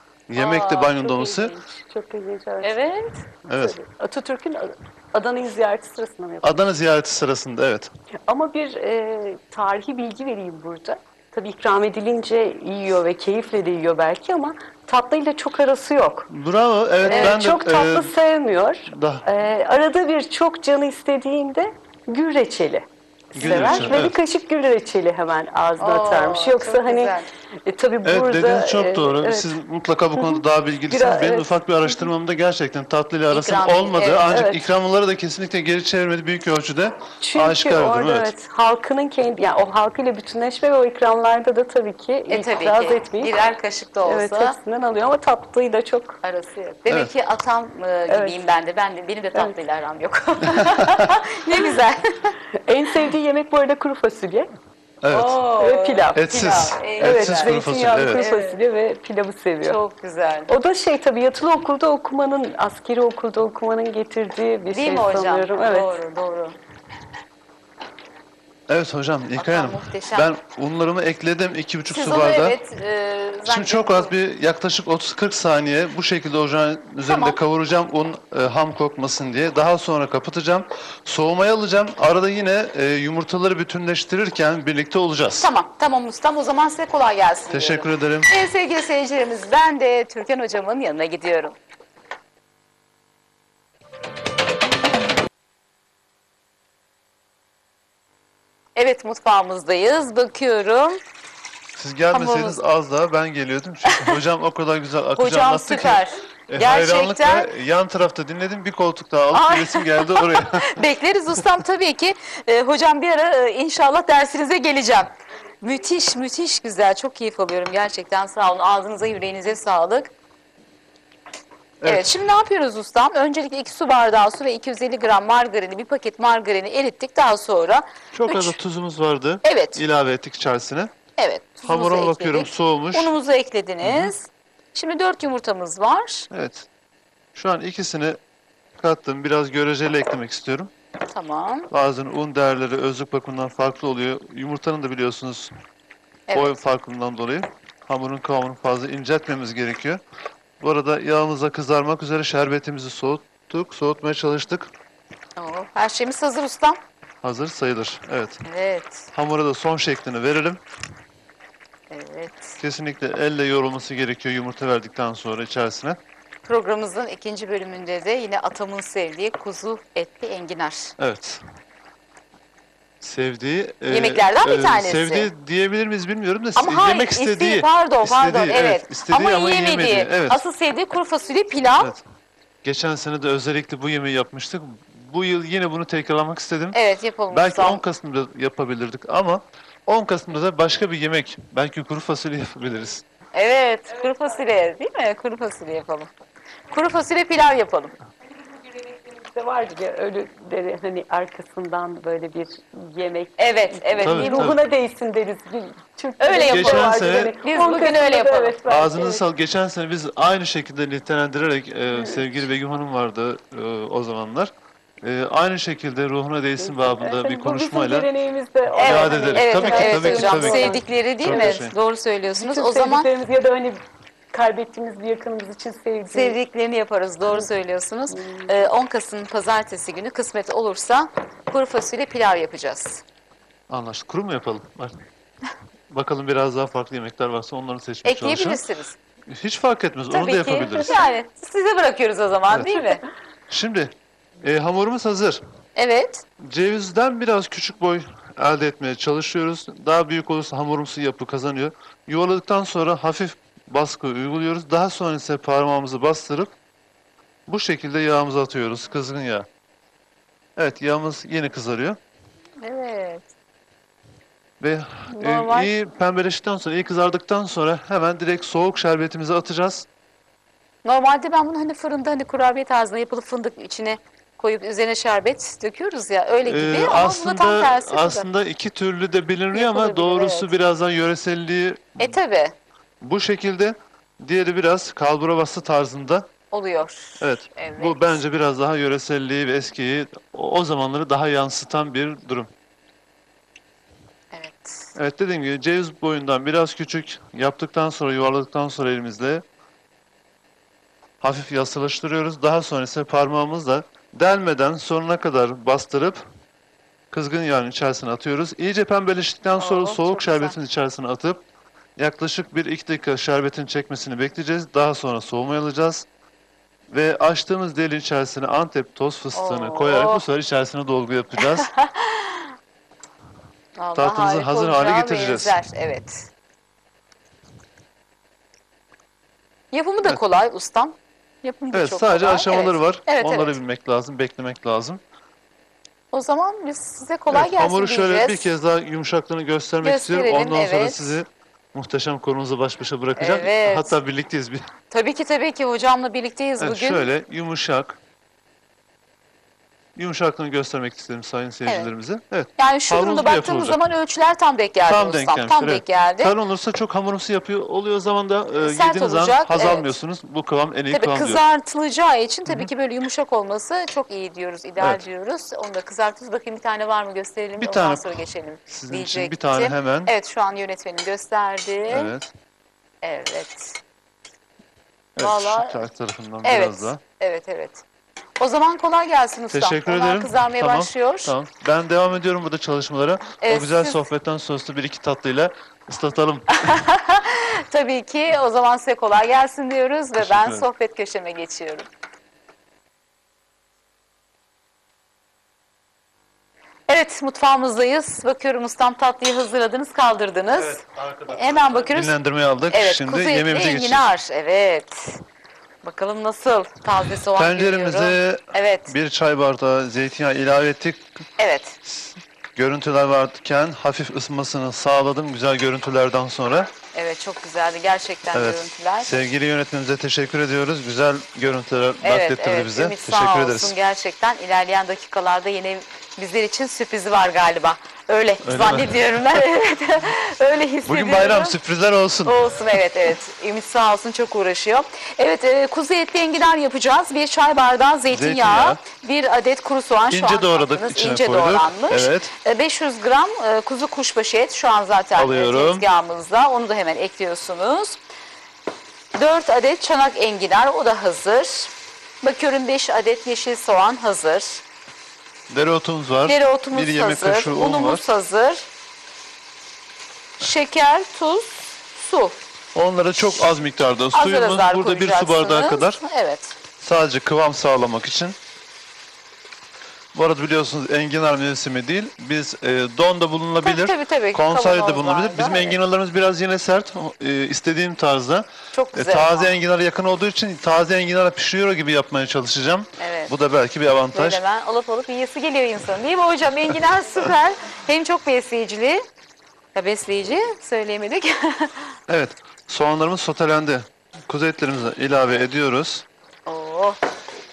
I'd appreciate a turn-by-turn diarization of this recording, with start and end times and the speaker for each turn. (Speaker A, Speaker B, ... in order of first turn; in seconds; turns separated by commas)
Speaker A: 0.3-1.5, Speaker B: 0.3-1.0, Speaker C: 0.9-2.8, Speaker B: 2.6-3.2, Speaker A: 3.5-3.8, Speaker C: 3.5-6.6, Speaker A: 6.4-7.9, Speaker C: 8.3-16.3, Speaker A: 16.3-18.1, Speaker C: 17.0-29.6, Speaker B: 17.1-17.4, Speaker A: 18.9-19.2, Speaker A: 23.3-24.2, Speaker B: 23.4-24.0, Speaker B: 25.8-27.3, Speaker A: 28.0-38.3, Speaker C: 30.1-32.1, Speaker B: 33.3-34.4, Speaker C: 34.3-34.6, Speaker C: 37.2-43.3, Speaker B: 42.3-44.5, Speaker C: 44.0-46.2, Speaker B: 46.2-52.3, Speaker C: 48.1-48.4, Speaker A: 50.6-50.9, Speaker C: 52.6-54.5, Speaker A: 55.0-55.4, Speaker B: 55.1-57.6, Speaker C: 55.5-56.2, Speaker A: 56.1-58.2, Speaker C: 56.8-59.8, Speaker B: 58.1-58.6, Speaker B: 59.6-60.5, Speaker C: 60.5-66.0, Speaker B: 64.7-66.5, Speaker A: 68.7-72.6, Speaker B: 69.3-70.3, Speaker B: 71.9-74.1, Speaker A: 73.4-85.5, Speaker B: 77.0-77.4, Speaker B: 85.4-91.5, Speaker A: 87.5-88.3, Speaker B: 98.8-101.0, Speaker A: 101.8-110.8, Speaker B: 102.1-102.6, Speaker B: 103.8-104.2, Speaker B: 105.1-107.5, Speaker B: 109.3-120.1, Speaker A: 121.8-122.1, Speaker B: 121.8-128.6, Speaker A: 128.1-130.9, Speaker B: 129.4-129.8, Speaker B: 131.2-136.3, Speaker A: 131.6-133.1, Speaker A: 133.8-134.1, Speaker A: 136.3-136.7, Speaker A: 137.3-138.2, Speaker A: 138.8-140.7, Speaker B: 141.1-141.7, Speaker A: 141.7-145.5, Speaker B: 146.3-146.6, Speaker A: 146.3-150.0, Speaker A: 150.6-154.7, Speaker B: 155.4-156.8, Speaker A: 157.2-158.4, Speaker B: 158.4-159.1, Speaker A: 159.1-160.6, Speaker B: 161.9-162.6, Speaker A: 162.6-166.0, Speaker B: 166.4-170.9, Speaker A: 171.0-171.4, Speaker A: 173.0-180.4, Speaker B: 173.9-175.3, Speaker B: 176.6-181.9, Speaker A: 182.6-186.8, Speaker B: 186.7-187.8, Speaker A: 187.3-193.0, Speaker B: 193.3-196.1, Speaker B: 196.7-197.9, Speaker C: 198.7-209.2, Speaker B: 203.4-204.6, Speaker A: 204.0-204.6, Speaker B: 206.2-208.6, Speaker A: 206.5-207.3, Speaker A: 208.7-218.1, Speaker C: 211.9-212.3, Speaker C: 216.6-221.6, Speaker B: 218.7-223.1, Speaker A: 218.8-221.7, Speaker C: 222.3-226.4, Speaker B: 226.1-233.0, Speaker C: 228.1-228.7, Speaker A: 233.7-234.9, Speaker A: 235.9-238.6, Speaker B: 238.0-239.0, Speaker A: 239.3-241.0, Speaker B: 240.1-243.0, Speaker A: 243.5-245.4, Speaker B: 245.8-246.2, Speaker A: 246.4-256.5, Speaker A: 257.5-259.5, Speaker A: 260.6-262.0, Speaker B: 262.6-263.2, Speaker A: 264.6-269.9, Speaker B: 265.1-265.7, Speaker B: 270.8-278.3, Speaker A: 276.4-282.2, Speaker B: 279.5-280.5, Speaker B: 282.0-282.5, Speaker A: 283.0-286.3, Speaker B: 286.5-288.2, Speaker A: 287.2-292.5, Speaker B: 294.3-294.9, Speaker A: 294.9-299.4, Speaker A: 301.2-306.2, Speaker A: 307.1-311.4, Speaker B: 309.6-310.6, Speaker A: 312.0-316.1, Speaker A: 316.9-321.7, Speaker B: 319.3-320.2, Speaker B: 321.4-322.5, Speaker B: 323.8-326.3, Speaker A: 323.9-325.6, Speaker B: 329.7-333.6, Speaker A: 331.7-335.0, Speaker B: 336.1-338.5, Speaker A: 337.3-344.6, Speaker B: 339.8-341.2, Speaker B: 343.2-344.0, Speaker B: 344.9-347.1, Speaker A: 346.6-348.0, Speaker A: 349.9-353.8, Speaker B: 351.6-351.9, Speaker B: 352.6-356.3, Speaker A: 354.9-361.4, Speaker B: 358.6-359.9, Speaker B: 360.9-372.1, Speaker A: 367.6-370.1, Speaker A: 371.9-372.3, Speaker B: 373.0-373.8, Speaker A: 375.1-377.0, Speaker B: 375.2-375.8, Speaker B: 376.4-377.8, Speaker B: 378.4-381.3, Speaker A: 379.5-386.5, Speaker B: 383.4-384.0, Speaker B: 386.5-391.9, Speaker A: 390.2-390.7, Speaker B: 396.9-402.1, Speaker A: 400.5-404.1, Speaker B: 402.7-405.2, Speaker B: 405.8-408.9, Speaker A: 407.3-411.2, Speaker B: 411.4-411.8, Speaker A: 411.8-416.7, Speaker B: 416.9-419.1, Speaker A: 418.3-423.8, Speaker B: 422.0-431.6, Speaker A: 428.4-429.4, Speaker A: 430.8-432.4, Speaker B: 432.2-448.0, Speaker A: 438.1-438.8, Speaker A: 440.1-442.3, Speaker A: 445.1-445.9, Speaker B: 449.1-454.6, Speaker A: 455.5-458.0, Speaker B: 456.2-458.7, Speaker B: 460.4-462.4, Speaker A: 462.7-466.0, Speaker B: 464.1-466.5, Speaker A: 466.8-468.4, Speaker A: 470.1-484.4, Speaker B: 473.6-475.8, Speaker B: 478.7-479.5, Speaker B: 483.0-483.3, Speaker B: 484.1-489.0, Speaker B: 489.7-492.0, Speaker A: 492.1-496.0, Speaker B: 496.4-497.0